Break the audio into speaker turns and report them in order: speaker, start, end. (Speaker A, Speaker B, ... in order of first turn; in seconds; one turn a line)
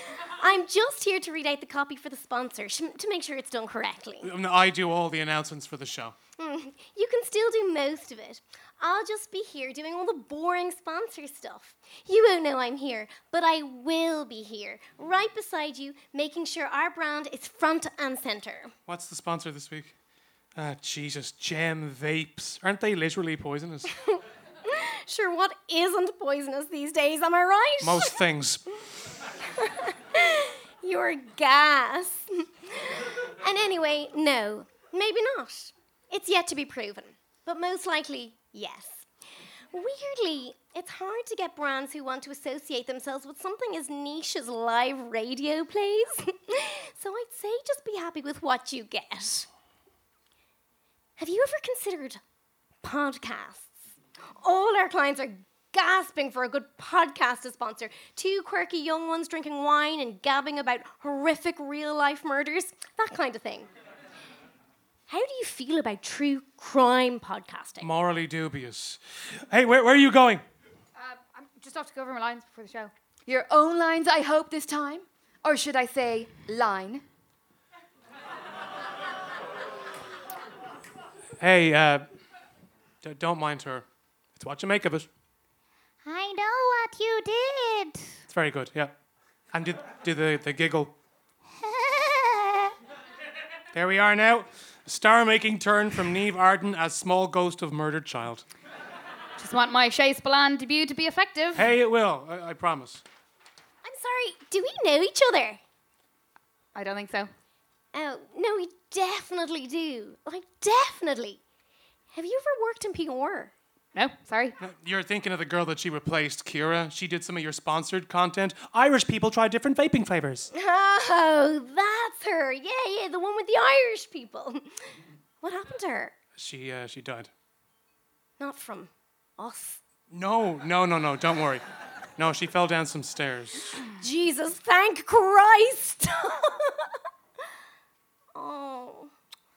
Speaker A: 0.4-4.3
Speaker B: 4.2-6.1
Speaker A: 6.4-18.7
Speaker B: 18.9-19.9
Speaker B: 20.6-23.9
Speaker A: 24.7-28.1
Speaker B: 27.8-28.6
Speaker A: 29.6-39.1
Speaker A: 39.7-49.5
Speaker A: 51.2-52.2
Speaker A: 52.8-53.8
Speaker A: 54.4-63.7
Speaker A: 65.1-67.9
Speaker B: 67.8-70.4
Speaker C: 71.0-72.9
Speaker D: 73.3-77.0
Speaker B: 81.4-82.0
Speaker B: 83.0-85.1
Speaker E: 86.0-88.1
Speaker B: 88.3-88.9
Speaker B: 89.5-90.9
Speaker E: 91.8-92.5
Speaker B: 93.7-98.4
Speaker C: 99.4-101.7
Speaker B: 101.5-103.0
Speaker A: 103.8-105.6
Speaker C: 106.7-107.3
Speaker A: 107.9-111.4
Speaker A: 112.1-113.5
Speaker C: 113.9-114.5
Speaker B: 114.6-120.5
Speaker A: 120.5-124.8
Speaker A: 125.4-126.1
Speaker B: 126.3-127.3
Speaker A: 128.4-129.8
Speaker B: 130.1-131.6
Speaker B: 132.2-133.8
Speaker A: 134.0-136.8
Speaker A: 138.3-139.1